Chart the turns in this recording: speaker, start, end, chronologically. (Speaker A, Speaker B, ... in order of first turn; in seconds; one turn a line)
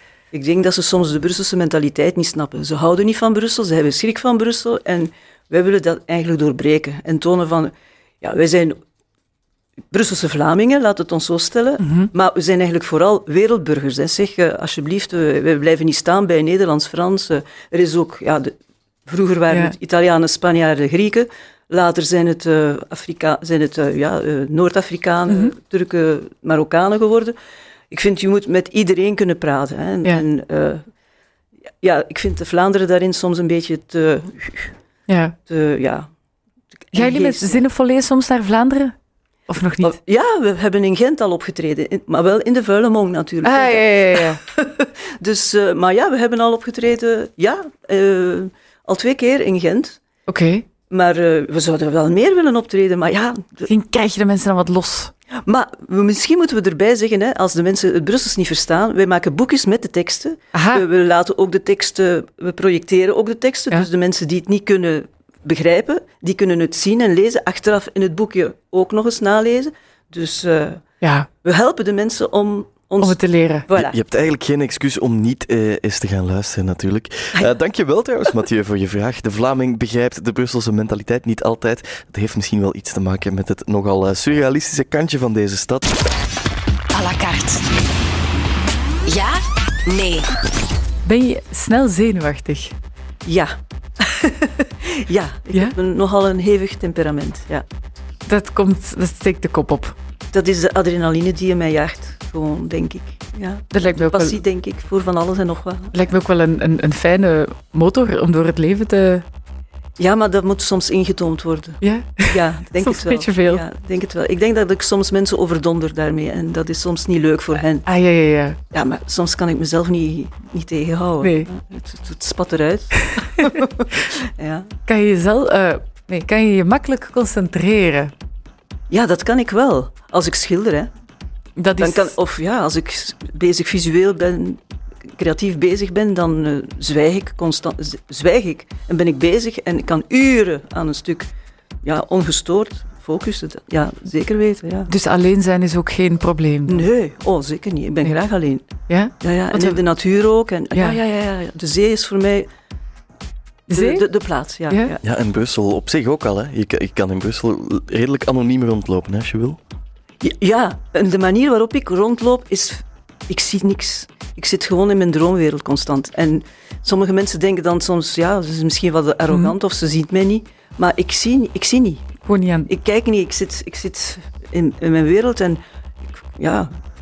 Speaker A: 0.3-8.8
Speaker A: 9.9-18.5
Speaker B: 11.8-12.1
Speaker A: 19.1-27.3
Speaker A: 27.9-30.8
Speaker A: 31.8-34.7
Speaker B: 35.1-35.4
Speaker A: 35.5-36.1
Speaker A: 36.9-37.6
Speaker B: 36.9-38.9
Speaker B: 39.5-39.9
Speaker A: 39.8-50.0
Speaker B: 43.4-44.4
Speaker B: 50.3-50.6
Speaker A: 50.9-53.7
Speaker B: 53.7-55.1
Speaker A: 55.4-70.8
Speaker B: 60.5-60.8
Speaker B: 71.0-71.3
Speaker A: 71.4-74.0
Speaker B: 73.0-73.7
Speaker C: 73.7-85.9
Speaker D: 86.9-87.6
Speaker D: 89.1-90.3
Speaker B: 91.0-92.7
Speaker A: 93.2-97.6
Speaker B: 98.3-99.9
Speaker A: 100.3-105.9
Speaker B: 103.7-104.4
Speaker B: 105.9-109.2
Speaker A: 110.0-117.8
Speaker B: 111.8-113.6
Speaker B: 117.8-118.6
Speaker A: 118.7-124.7
Speaker B: 121.2-121.5
Speaker B: 123.0-123.5
Speaker B: 124.9-128.1
Speaker A: 128.9-130.9
Speaker B: 131.6-132.1
Speaker A: 131.8-141.3
Speaker A: 141.8-144.9
Speaker B: 144.9-146.8
Speaker A: 146.7-148.7
Speaker B: 148.9-149.8
Speaker A: 149.2-152.5
Speaker B: 150.7-151.0
Speaker B: 153.7-154.1
Speaker A: 153.7-155.0
Speaker B: 154.7-154.9
Speaker C: 155.0-159.6
Speaker A: 160.2-172.1
Speaker B: 172.2-172.7
Speaker A: 172.7-175.6
Speaker A: 176.3-176.7